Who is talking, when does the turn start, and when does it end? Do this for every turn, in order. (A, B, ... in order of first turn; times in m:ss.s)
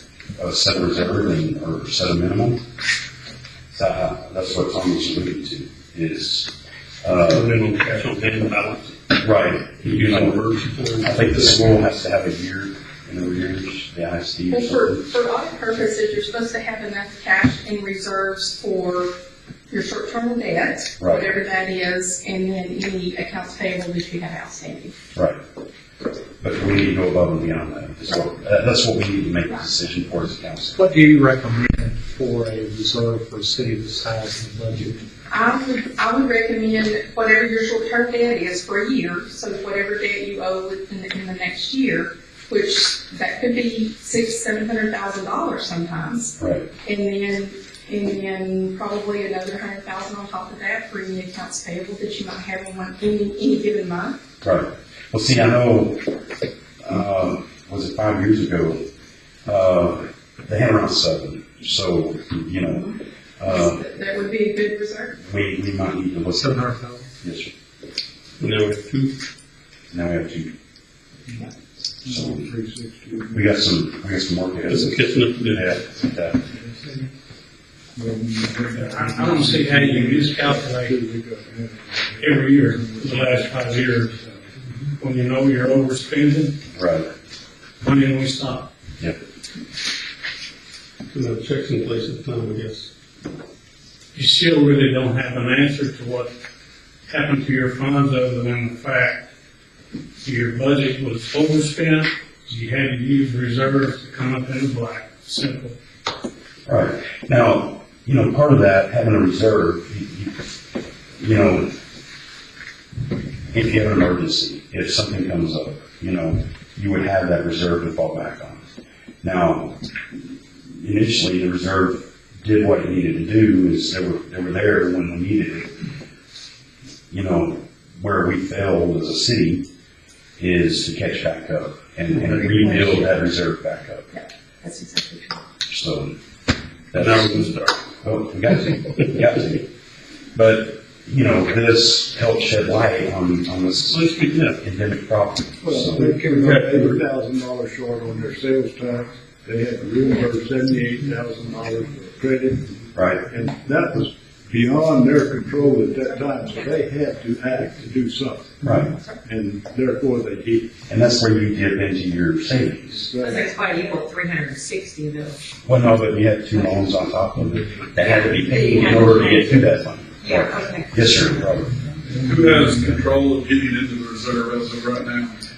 0:00.4-0:02.6 A
0:03.7-0:06.5 A
0:07.0-0:07.6 A
0:07.2-0:09.0 B
0:09.2-0:10.5 A
0:09.8-0:11.7 B
0:11.0-0:15.0 A
0:14.5-0:19.1 C
0:19.7-0:24.9 C
0:21.0-0:21.3 A
0:25.2-0:25.4 A
0:26.4-0:30.8 A
0:30.8-0:35.0 D
0:35.3-0:54.2 C
0:46.4-0:46.7 A
0:54.4-0:56.1 A
0:56.8-0:58.9 A
0:59.5-1:03.8 A
1:02.6-1:02.9 C
1:03.5-1:05.2 C
1:05.2-1:07.5 A
1:06.4-1:07.1 D
1:08.4-1:09.2 B
1:09.9-1:10.6 A
1:12.0-1:13.6 E
1:12.1-1:12.5 A
1:13.3-1:16.4 A
1:14.7-1:15.8 B
1:16.5-1:17.0 E
1:18.0-1:24.4 E
1:18.7-1:21.0 F
1:22.2-1:24.2 F
1:25.0-1:26.6 F
1:26.7-1:27.1 A
1:27.8-1:28.7 F
1:31.1-1:32.9 B
1:34.1-1:36.3 F
1:37.1-1:39.3 F
1:40.2-1:45.8 F
1:46.7-1:50.3 A
1:51.2-1:51.8 A
1:53.5-1:58.7 A
1:59.2-1:59.8 A
2:00.8-2:05.8 A
2:07.1-2:09.7 A
2:10.4-2:14.1 A
2:12.3-2:13.0 B
2:14.8-2:15.2 C
2:15.7-2:16.2 A
2:16.9-2:19.7 A
2:17.0-2:17.9 B
2:20.4-2:24.1 A
2:23.9-2:24.6 B
2:24.6-2:26.2 A
2:25.6-2:38.6 E
2:26.2-2:27.0 B
2:33.0-2:33.2 A
2:38.6-2:38.9 A
2:39.2-2:40.8 E
2:40.9-2:43.1 A
2:42.9-2:43.5 E
2:43.2-2:45.4 G
2:45.7-2:51.7 A
2:48.0-2:49.5 G
2:50.2-2:51.4 G
2:52.1-2:53.1 E
2:52.3-2:55.4 H